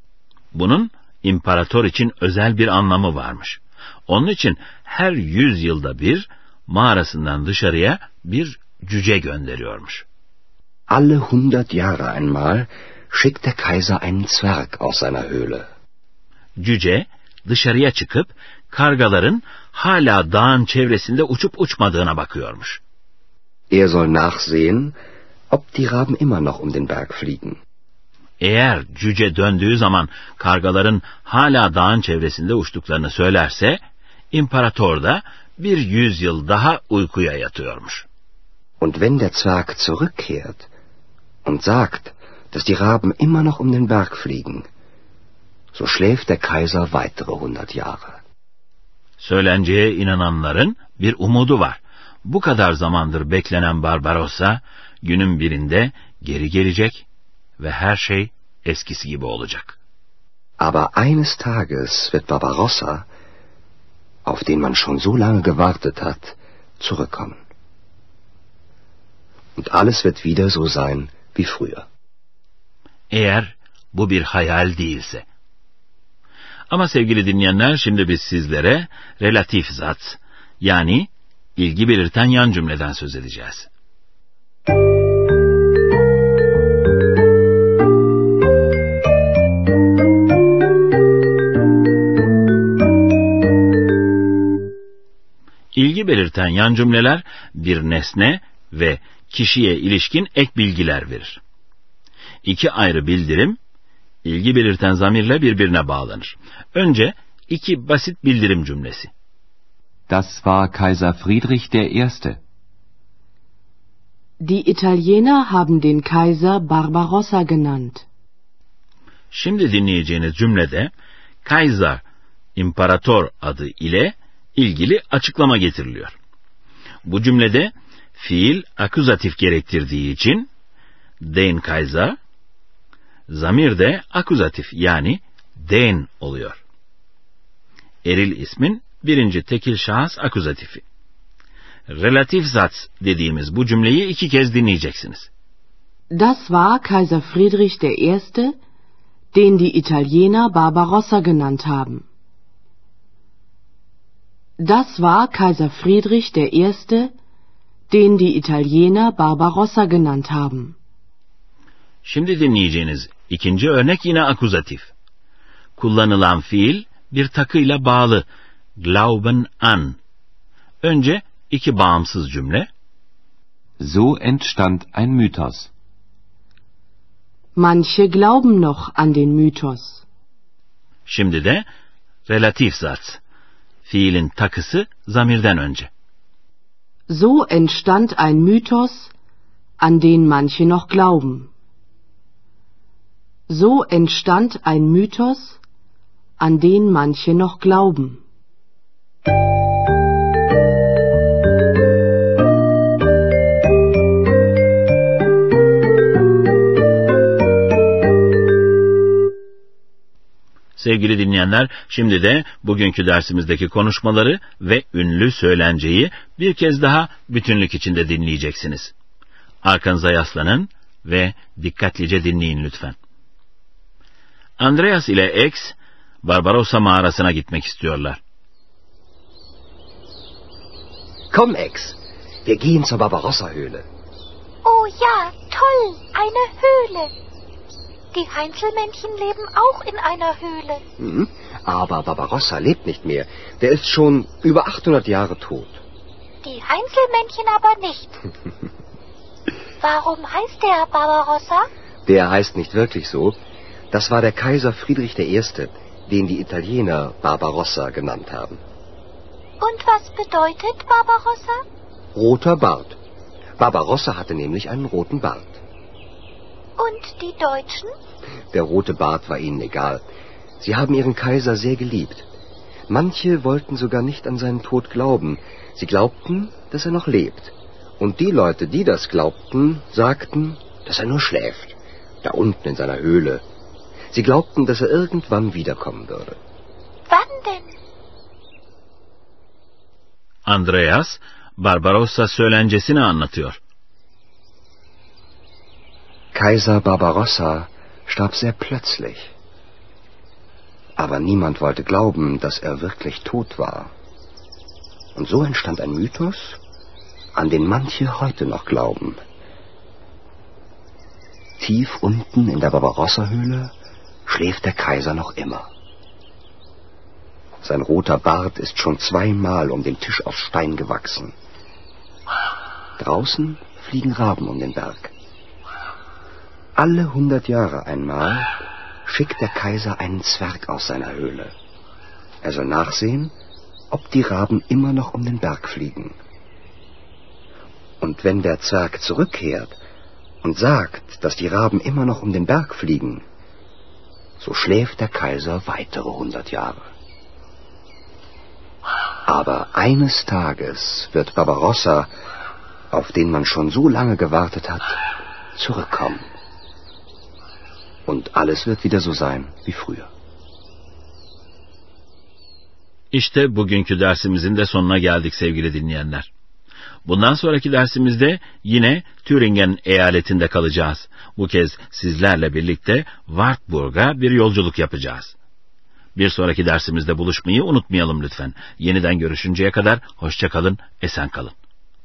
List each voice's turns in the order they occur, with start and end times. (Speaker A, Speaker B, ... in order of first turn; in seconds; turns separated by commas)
Speaker A: 0.5-10.0, Speaker B: 10.9-15.7, Speaker A: 16.6-22.8, Speaker B: 23.7-25.0, Speaker B: 25.5-27.6, Speaker A: 28.4-33.8, Speaker A: 34.3-38.0, Speaker B: 38.8-40.7, Speaker B: 41.4-44.7, Speaker B: 45.7-48.2, Speaker A: 49.2-57.0, Speaker A: 57.6-59.8, Speaker B: 60.6-63.1, Speaker B: 64.2-67.4, Speaker B: 69.6-71.9, Speaker A: 73.1-75.2, Speaker A: 76.7-83.7, Speaker A: 95.7-101.4, Speaker A: 102.4-103.6, Speaker A: 104.2-109.1, Speaker B: 110.1-112.0, Speaker C: 110.1-112.4, Speaker D: 114.4-118.0, Speaker A: 119.3-120.9, Speaker A: 121.4-122.0, Speaker A: 122.5-126.2, Speaker A: 127.0-130.5, Speaker A: 131.2-132.2, Speaker A: 133.3-136.6, Speaker A: 138.0-140.8, Speaker A: 141.9-145.3, Speaker D: 146.1-148.6, Speaker D: 149.3-152.1, Speaker D: 154.6-157.1, Speaker D: 157.9-160.8, Speaker A: 162.0-164.9, Speaker A: 165.8-168.3, Speaker A: 168.8-170.0, Speaker A: 170.8-172.7, Speaker C: 173.8-175.7, Speaker D: 177.5-180.0, Speaker A: 181.1-181.7, Speaker A: 182.2-183.2, Speaker A: 183.8-185.9, Speaker D: 187.1-189.1, Speaker D: 189.8-191.5, Speaker D: 193.5-195.6, Speaker D: 196.4-198.2, Speaker A: 210.8-218.9, Speaker A: 219.6-222.9, Speaker A: 224.6-228.2, Speaker B: 231.3-233.9, Speaker E: 234.6-237.1, Speaker E: 238.1-240.8, Speaker B: 241.0-245.8, Speaker E: 246.4-248.2, Speaker E: 249.8-251.7, Speaker B: 252.1-253.4, Speaker B: 253.9-258.6, Speaker E: 259.6-261.6, Speaker B: 262.1-263.0, Speaker B: 263.6-265.6, Speaker E: 266.8-267.9, Speaker B: 268.5-270.1, Speaker B: 270.6-272.3, Speaker B: 272.9-283.4, Speaker B: 284.1-286.4, Speaker E: 287.1-287.7, Speaker A: 290.4-293.6, Speaker B: 296.3-299.3, Speaker B: 301.0-303.9, Speaker B: 305.1-306.6, Speaker B: 307.3-309.2, Speaker B: 311.6-313.7, Speaker B: 314.2-315.7, Speaker B: 317.6-321.3, Speaker B: 323.0-325.1, Speaker B: 326.8-328.5, Speaker B: 329.1-331.5, Speaker B: 332.4-333.3, Speaker B: 333.9-336.2, Speaker B: 338.0-339.8, Speaker B: 340.4-343.2, Speaker B: 344.4-346.9, Speaker B: 349.3-352.1, Speaker B: 352.9-355.0, Speaker B: 355.6-356.3, Speaker B: 358.1-360.1, Speaker A: 363.1-366.3, Speaker A: 367.0-375.3, Speaker A: 376.1-381.5